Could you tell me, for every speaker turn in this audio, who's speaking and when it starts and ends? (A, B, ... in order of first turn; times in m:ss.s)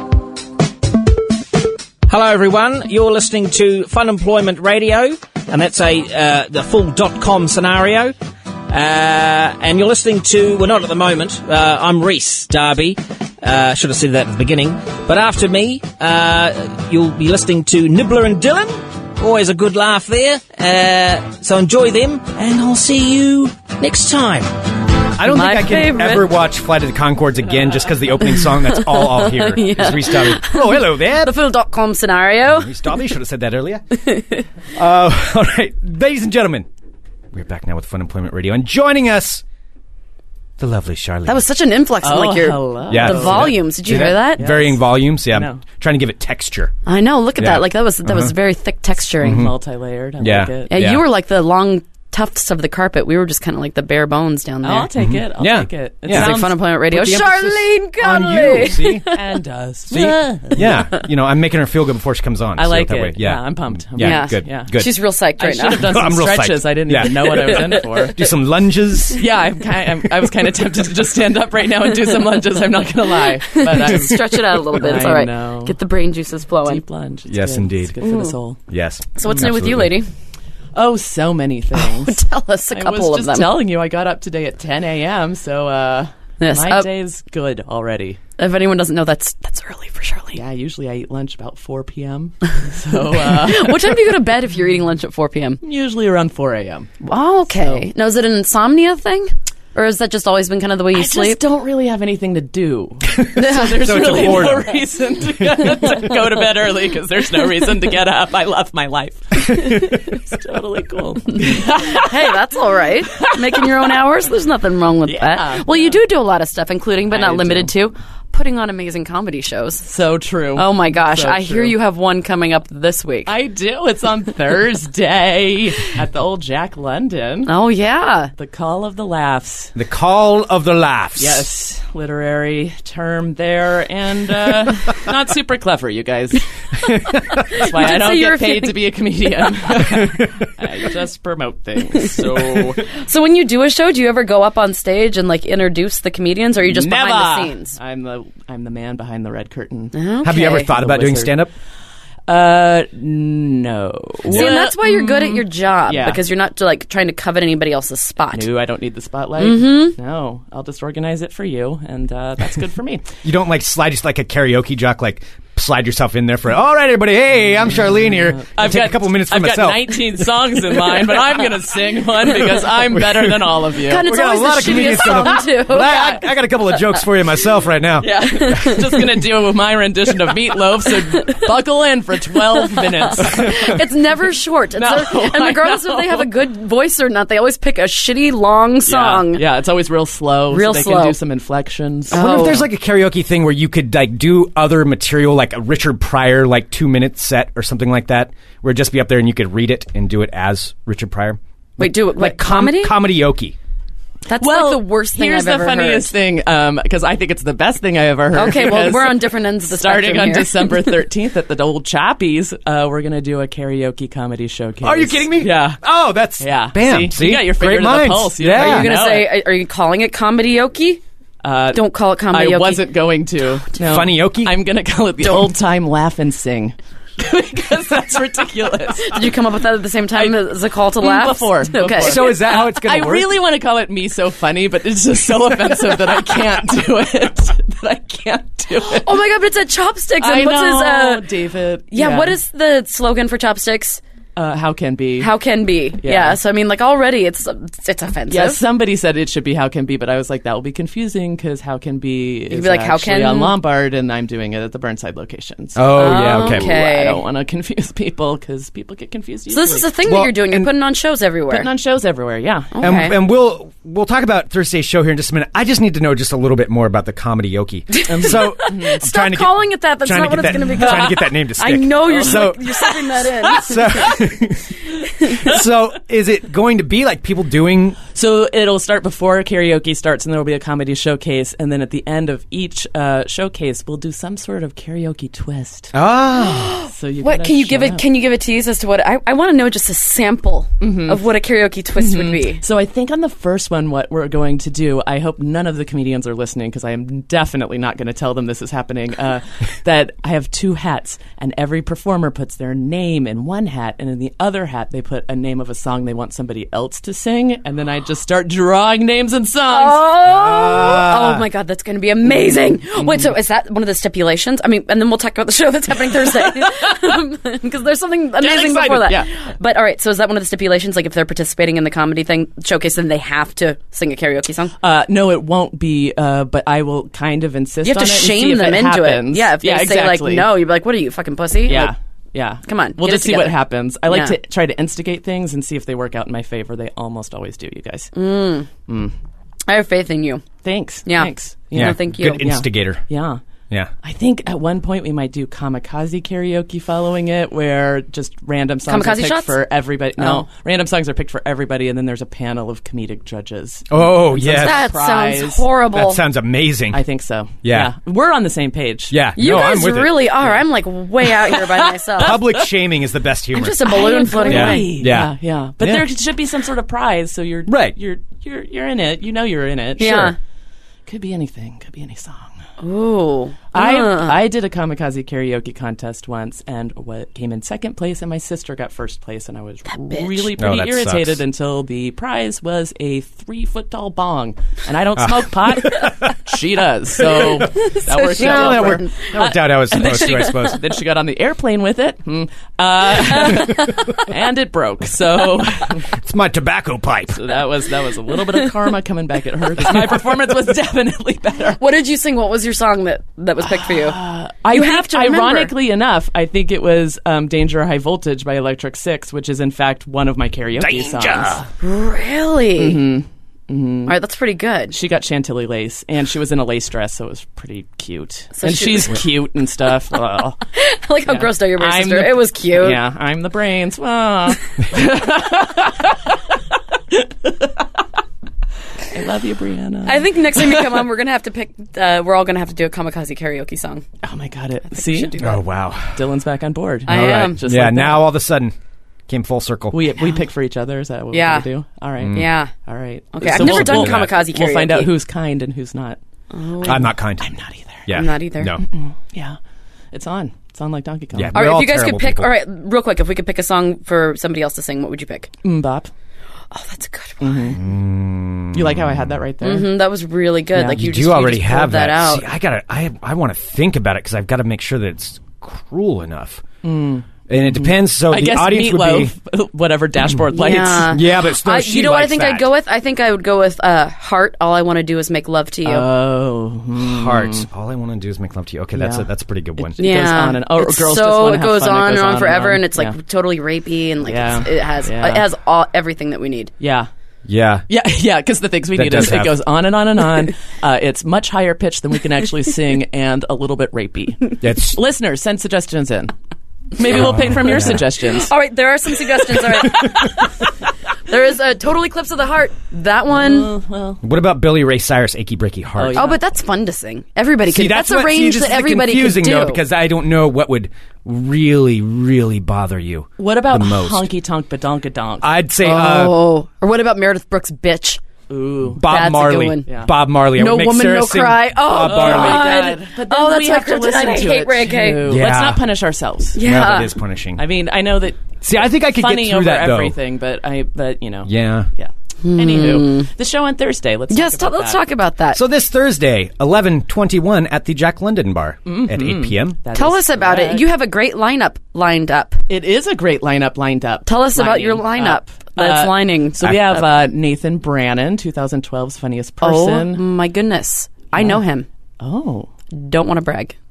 0:02.1-0:08.1 A
0:08.7-0:24.5 A
0:25.2-0:31.3 B
0:25.3-0:26.3 C
0:28.4-0:33.0 C
0:32.4-0:33.8 B
0:34.0-0:34.4 C
0:34.7-0:36.7 B
0:37.3-0:39.4 B
0:40.6-0:41.4 B
0:41.2-0:44.5 C
0:42.0-0:45.6 D
0:42.9-0:46.7 B
0:46.8-0:49.5 C
0:47.4-0:48.3 B
0:49.2-0:49.6 B
0:49.3-0:50.7 D
0:50.2-0:51.0 B
0:50.7-0:54.9 C
0:54.6-0:56.6 D
0:55.0-0:59.0 B
0:56.1-0:59.2 C
0:59.1-1:00.8 D
0:59.9-1:04.9 B
1:02.6-1:04.8 D
1:04.0-1:06.0 C
1:05.4-1:08.2 D
1:05.7-1:09.2 B
1:09.1-1:15.7 D
1:13.4-1:16.8 C
1:16.6-1:18.6 D
1:17.3-1:17.9 B
1:18.0-1:18.4 C
1:18.7-1:19.9 B
1:19.2-1:20.1 C
1:20.7-1:22.2 D
1:21.7-1:23.6 C
1:22.7-1:28.2 D
1:26.4-1:26.9 C
1:28.4-1:30.4 C
1:30.3-1:34.0 D
1:33.2-1:35.6 C
1:35.6-1:36.9 D
1:37.0-1:41.4 C
1:40.9-1:52.3 D
1:43.1-1:44.8 B
1:43.3-1:44.5 C
1:45.5-1:45.9 B
1:49.6-1:50.0 B
1:51.4-1:59.9 C
1:53.1-1:53.8 D
1:55.0-1:56.0 D
1:57.1-1:57.7 D
1:59.8-2:01.7 D
2:00.5-2:03.3 C
2:03.3-2:07.5 D
2:07.4-2:08.3 C
2:08.4-2:09.7 D
2:09.7-2:11.5 B
2:11.2-2:16.5 D
2:17.4-2:18.8 C
2:17.4-2:22.8 D
2:22.0-2:27.8 C
2:26.6-2:29.9 D
2:29.9-2:30.7 C
2:30.2-2:31.5 B
2:30.7-2:31.4 D
2:32.3-2:36.2 D
2:34.3-2:34.6 B
2:34.3-2:38.5 C
2:38.3-2:43.1 D
2:39.4-2:39.9 C
2:43.2-2:50.2 B
2:48.1-2:54.0 D
2:52.9-2:58.8 B
2:53.8-2:56.2 C
2:54.9-2:55.3 D
2:58.0-3:03.8 D
2:58.2-2:58.9 C
3:02.6-3:09.4 C
3:04.8-3:06.3 D
3:08.8-3:12.5 D
3:10.5-3:11.2 C
3:12.1-3:12.7 C
3:12.1-3:23.6 B
3:21.8-3:23.0 C
3:24.3-3:26.1 C
3:24.4-3:35.8 D
3:28.3-3:31.0 C
3:34.8-3:38.9 B
3:36.4-3:39.4 D
3:38.5-3:41.0 C
3:41.4-3:49.3 D
3:41.7-3:42.8 C
3:43.8-3:44.6 B
3:49.0-3:52.3 C
3:51.0-3:59.2 D
3:52.0-3:53.4 B
3:58.8-4:01.3 C
4:00.2-4:02.4 D
4:01.9-4:04.0 C
4:04.4-4:05.3 D
4:05.2-4:08.6 C
4:06.0-4:06.4 D
4:08.3-4:19.9 D
4:12.5-4:13.6 C
4:15.8-4:16.7 B
4:15.9-4:17.2 C
4:19.5-4:21.7 C
4:20.1-4:20.7 B
4:21.5-4:22.9 D
4:22.7-4:23.2 C
4:22.8-4:32.9 B
4:27.9-4:34.2 C
4:28.1-4:29.0 D
4:32.0-4:32.5 D
4:33.4-4:38.0 B
4:38.1-4:45.9 D
4:45.9-4:46.8 B
4:46.4-4:52.6 C
4:46.9-4:48.0 D
4:50.8-4:51.2 D
4:52.0-5:10.1 D
5:09.7-5:24.8 C
5:10.2-5:11.4 B
5:18.4-5:19.3 D
5:24.8-5:30.5 D
5:27.8-5:31.9 C
5:31.6-5:38.1 D
5:32.6-5:34.4 C
5:38.1-5:38.7 C
5:38.8-5:39.1 D
5:39.7-5:40.4 C
5:40.6-5:43.4 D
5:41.0-5:42.4 C
5:41.7-5:43.0 B
5:44.0-5:55.7 D
5:48.9-5:49.6 C
5:50.2-5:50.4 C
5:53.9-5:54.9 B
5:54.5-5:56.2 C
5:55.9-5:57.0 B
5:56.9-5:59.2 D
5:57.6-5:57.9 B
5:59.1-6:00.3 B
5:59.4-6:02.4 C
6:01.5-6:02.4 D
6:02.2-6:06.1 B
6:03.5-6:05.0 C
6:03.8-6:10.3 D
6:07.7-6:08.0 B
6:10.0-6:10.4 C
6:10.0-6:10.3 B
6:11.0-6:12.6 D
6:12.8-6:14.4 C
6:13.7-6:36.1 D
6:20.1-6:20.5 C
6:20.6-6:21.4 B
6:25.2-6:26.4 B
6:27.2-6:30.8 B
6:27.8-6:29.1 C
6:36.1-6:37.5 B
6:37.3-6:41.8 D
6:41.8-6:45.7 C
6:43.7-6:51.6 D
6:50.8-6:51.6 B
6:51.8-6:53.0 C
6:52.8-6:54.1 D
6:54.1-6:55.0 C
6:54.9-7:00.6 D
6:58.6-6:59.2 C
7:00.7-7:03.0 C
7:01.3-7:06.4 D
7:07.1-7:07.8 D
7:09.1-7:11.0 D
7:10.0-7:14.0 C
7:14.2-7:15.4 D
7:14.9-7:15.6 C
7:15.4-7:16.3 B
7:16.1-7:18.3 D
7:17.0-7:17.6 C
7:17.1-7:18.7 B
7:19.3-7:20.1 B
7:19.9-7:26.2 D
7:21.3-7:21.7 C
7:22.2-7:22.5 B
7:22.3-7:22.7 C
7:23.3-7:25.1 C
7:23.4-7:24.3 B
7:26.5-7:27.1 C
7:26.8-7:28.2 D
7:26.8-7:27.5 B
7:28.0-7:28.8 B
7:28.1-7:28.8 C
7:28.8-7:29.6 D
7:30.1-7:31.6 D
7:31.3-7:32.5 B
7:31.5-7:35.5 C
7:35.6-7:36.1 D
7:36.7-7:37.8 C
7:37.4-7:37.8 D
7:37.7-7:39.4 B
7:38.7-7:40.0 D
7:39.6-7:42.4 C
7:40.7-7:41.0 D
7:40.9-7:46.6 B
7:46.8-7:51.2 D
7:47.5-7:49.3 B
7:50.5-7:56.1 C
7:51.0-7:52.7 B
7:55.8-7:57.6 D
7:57.0-8:00.0 B
7:59.0-7:59.2 D
7:59.8-8:03.2 D
8:00.0-8:06.7 C
8:04.2-8:05.4 D
8:06.8-8:07.1 D
8:07.4-8:07.8 B
8:07.9-8:16.3 D
8:08.9-8:09.6 B
8:14.6-8:15.0 B
8:17.0-8:18.5 D
8:17.0-8:18.1 B
8:18.4-8:20.4 C
8:19.5-8:20.4 D
8:21.3-8:23.7 C
8:23.3-8:24.2 D
8:24.2-8:26.3 B
8:26.0-8:26.4 D
8:26.1-8:29.8 C
8:27.7-8:34.3 B
8:33.4-8:35.5 D
8:35.4-8:36.4 B
8:35.8-8:38.2 C
8:38.5-8:39.1 D
8:38.9-8:42.8 B
8:39.0-8:45.3 C
8:39.9-8:40.1 D
8:42.0-8:46.7 D
8:45.2-8:45.8 B
8:46.5-8:47.1 C
8:46.6-8:47.6 B
8:47.6-8:55.0 D
8:48.6-8:50.2 B
8:51.4-8:51.9 B
8:52.4-8:53.3 C
8:54.3-8:55.6 C
8:55.5-8:59.8 B
8:58.8-9:00.9 D
8:59.9-9:02.6 C
9:02.7-9:10.2 D
9:04.2-9:07.0 C
9:06.6-9:06.9 B
9:09.6-9:11.9 C
9:11.4-9:11.6 D
9:12.2-9:12.7 D
9:12.9-9:13.8 C